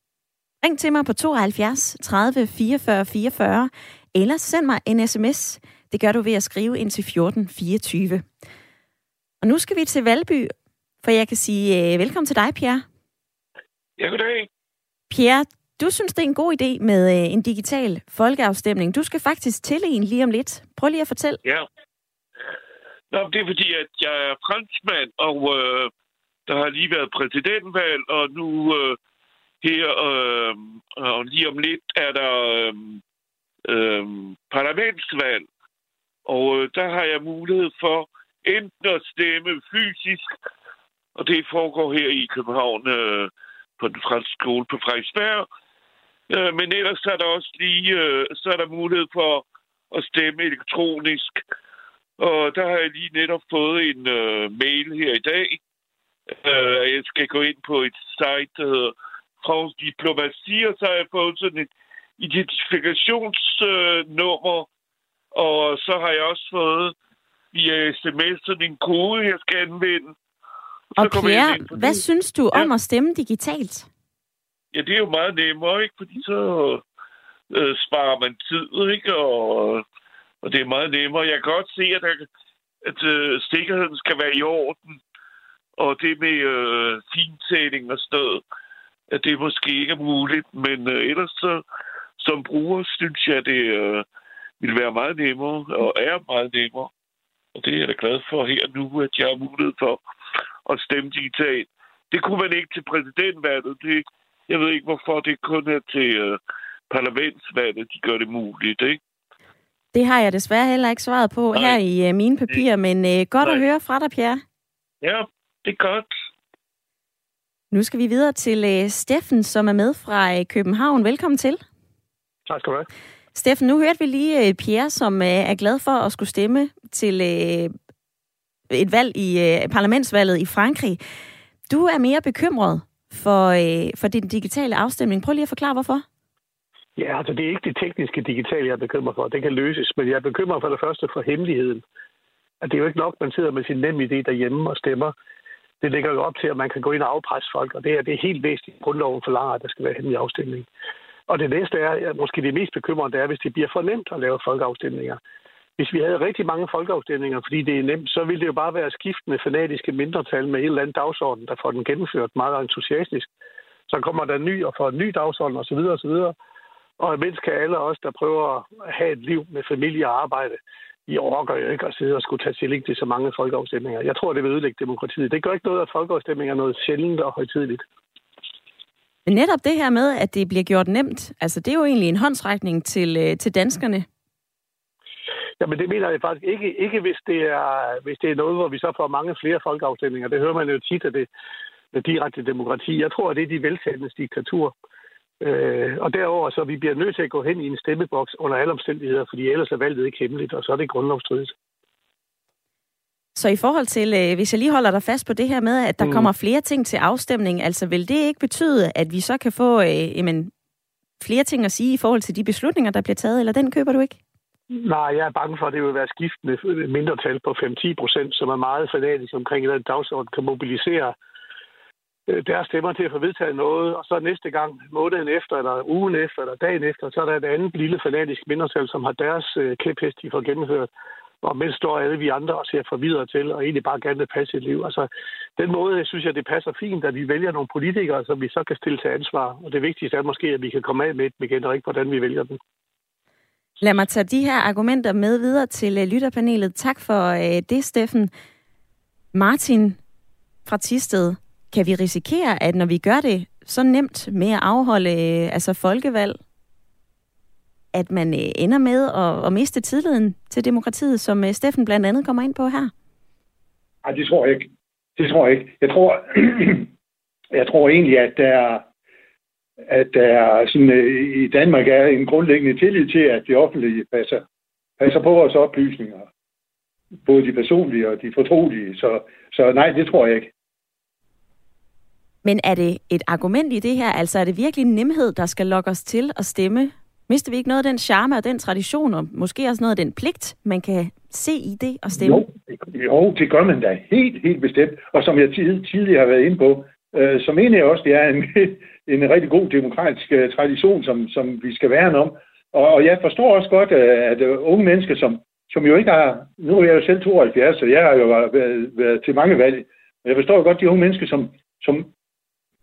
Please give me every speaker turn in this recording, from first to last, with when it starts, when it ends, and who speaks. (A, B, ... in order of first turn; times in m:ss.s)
0:00.6-0:08.2 A
0:09.4-0:10.5 A
0:11.0-0:12.8 A
0:14.0-0:14.5 B
0:15.1-0:21.4 A
0:23.1-0:25.9 B
0:26.5-0:29.0 B
0:29.6-0:33.0 B
0:33.7-0:35.5 B
0:36.3-0:40.3 B
0:41.2-0:45.5 B
0:46.3-0:51.4 B
0:52.2-0:55.6 B
0:56.4-1:04.7 B
1:05.4-1:06.9 B
1:07.5-1:10.1 B
1:11.0-1:12.7 B
1:11.0-1:13.9 A
1:14.7-1:16.8 B
1:17.5-1:19.8 B
1:20.4-1:22.3 B
1:22.8-1:25.0 B
1:25.8-1:28.4 B
1:29.1-1:31.6 B
1:32.2-1:34.0 B
1:34.6-1:36.9 B
1:37.6-1:40.0 B
1:40.7-1:46.4 B
1:46.9-1:49.0 B
1:49.9-1:54.4 A
1:51.5-1:51.8 B
1:55.0-1:56.1 B
1:57.7-2:01.6 A
2:02.5-2:02.9 C
2:03.4-2:07.7 A
2:08.7-2:11.0 A
2:11.7-2:16.0 A
2:17.0-2:21.8 C
2:22.6-2:25.1 C
2:25.8-2:30.7 C
2:31.3-2:35.2 C
2:35.8-2:43.3 C
2:43.9-2:46.4 C
2:47.0-2:57.8 C
2:59.3-3:04.1 A
3:05.6-3:11.3 C
3:11.9-3:14.7 C
3:15.4-3:21.6 C
3:23.4-3:30.5 A
3:26.0-3:26.3 C
3:31.2-3:34.2 A
3:34.8-3:41.1 C
3:42.3-3:50.9 C
3:51.4-4:02.6 C
4:03.8-4:08.3 A
4:09.3-4:10.0 A
4:10.7-4:16.4 A
4:17.9-4:22.9 A
4:24.0-4:26.9 D
4:27.5-4:28.8 D
4:29.9-4:34.4 D
4:35.0-4:36.3 D
4:37.2-4:40.5 D
4:42.4-4:52.5 A
4:52.1-5:12.1 D